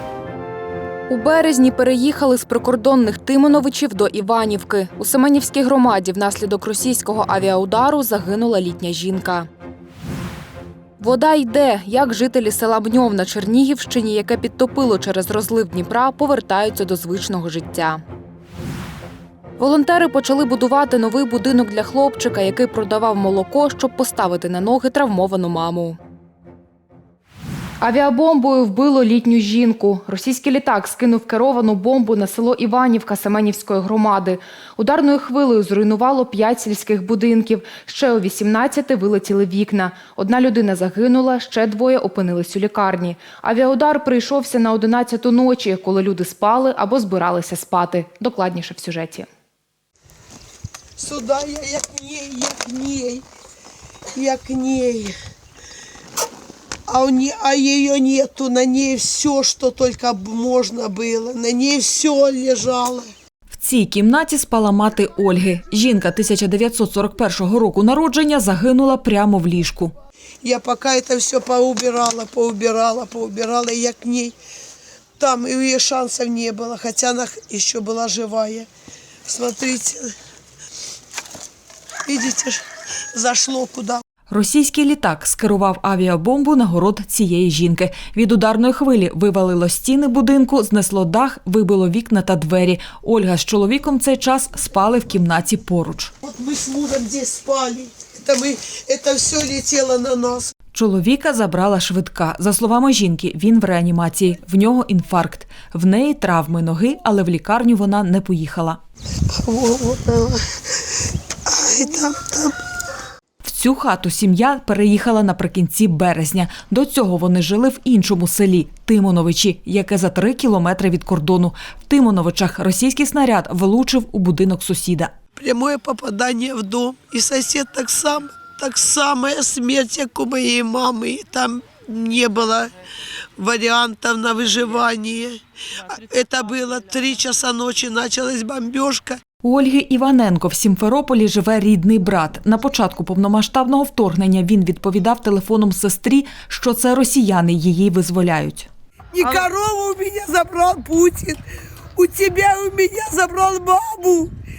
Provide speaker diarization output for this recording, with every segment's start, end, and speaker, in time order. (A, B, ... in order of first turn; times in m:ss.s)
0:01.1-0:09.5 A
0:11.0-0:18.0 A
0:19.6-0:26.0 A
0:27.8-0:49.3 A
0:51.0-0:53.2 B
0:54.1-0:55.1 B
0:56.9-1:03.1 B
1:03.5-1:09.9 C
1:10.4-1:14.3 B
1:15.2-1:18.7 B
1:19.2-1:20.1 B
1:22.0-1:22.6 B
1:23.1-1:24.0 B
1:24.3-1:36.1 C
1:36.2-1:40.5 B
1:40.7-1:48.8 C
1:49.3-1:50.4 B
1:51.4-1:52.5 B
1:53.4-2:05.1 C
2:05.4-2:12.7 B
2:13.4-2:19.2 B
2:19.4-2:28.7 C
2:29.1-2:31.4 B
2:32.0-2:34.3 B